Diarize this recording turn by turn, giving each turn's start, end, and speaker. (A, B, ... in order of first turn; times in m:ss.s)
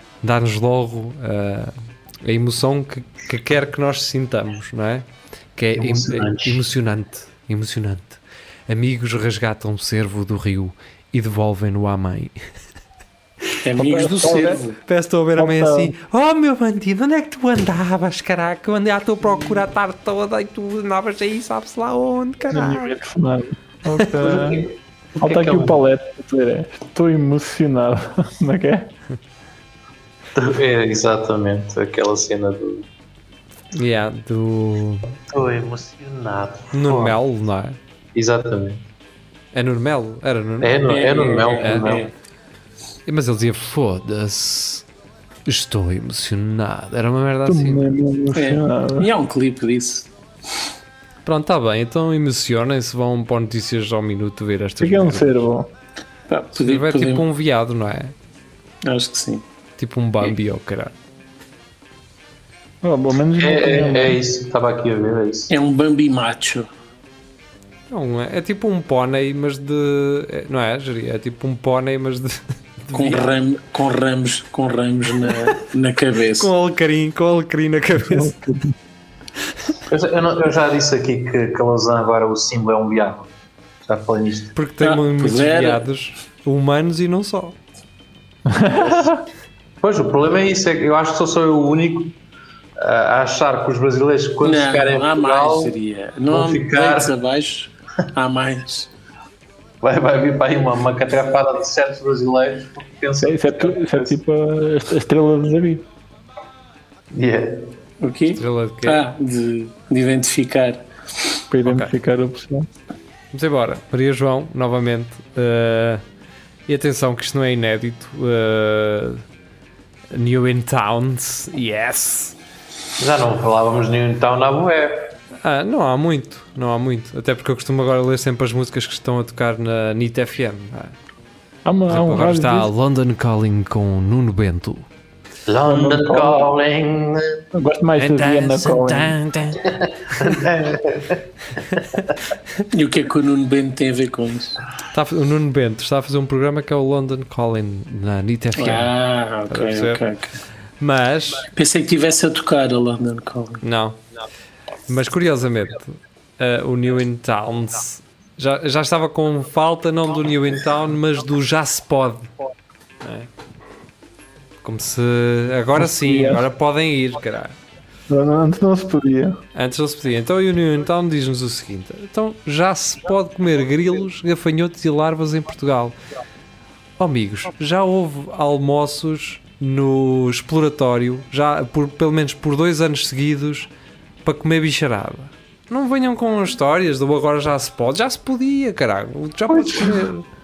0:00.2-0:12.4 A
0:05.8-0:06.6 B
0:13.6-0:14.8 C
0:13.8-0:14.6 D
0:14.8-0:22.9 A
0:15.4-0:15.9 D
0:22.5-0:28.9 D
0:24.2-0:25.8 B
0:30.3-0:32.8 B
0:33.7-0:35.1 A
0:35.3-0:37.2 B
0:36.7-0:37.8 A
0:38.1-0:38.8 B
0:39.5-0:42.0 A
0:40.6-0:42.0 B
0:40.8-0:42.1 C
0:43.0-0:44.8 A
0:45.4-0:47.8 A
0:47.5-0:49.1 D
0:48.3-0:50.1 C
0:51.2-0:55.4 A
0:54.8-0:55.7 D
0:56.3-0:57.2 C
0:56.6-0:58.1 A
0:58.8-0:59.4 C
0:59.8-1:00.9 A
1:02.8-1:04.2 D
1:03.4-1:05.5 B
1:05.5-1:06.7 C
1:07.9-1:13.3 A
1:12.9-1:16.5 C
1:16.4-1:18.4 A
1:18.1-1:18.7 D
1:19.9-1:23.3 B
1:23.9-1:24.5 B
1:24.5-1:27.6 A
1:24.8-1:25.8 C
1:28.5-1:29.2 D
1:29.8-1:32.1 B
1:32.8-1:35.7 B
1:34.4-1:38.9 C
1:36.3-1:37.1 B
1:39.8-1:44.1 B
1:43.2-1:45.8 D
1:47.1-1:47.7 B
1:48.0-1:50.8 C
1:48.3-1:49.0 A
1:51.5-1:52.7 D
1:51.6-1:51.9 A
1:53.3-1:56.0 A
1:56.7-1:59.2 A
2:00.1-2:02.3 A
2:03.0-2:05.1 B
2:05.4-2:11.0 A
2:11.6-2:12.7 D
2:11.9-2:14.8 A
2:15.5-2:17.4 B
2:15.6-2:16.5 D
2:17.5-2:19.2 D
2:18.0-2:20.3 A
2:20.1-2:21.8 B
2:22.7-2:24.6 C
2:24.9-2:28.9 A
2:28.6-2:30.4 C
2:29.5-2:30.0 A
2:30.8-2:31.5 A
2:31.5-2:33.6 C
2:33.6-2:34.0 A
2:34.9-2:42.3 A
2:43.0-2:43.3 A
2:44.6-2:47.6 A
2:45.8-2:46.4 D
2:48.1-2:49.4 D
2:49.5-2:55.9 A
2:57.0-3:03.7 A
3:04.2-3:10.2 A
3:09.5-3:10.0 D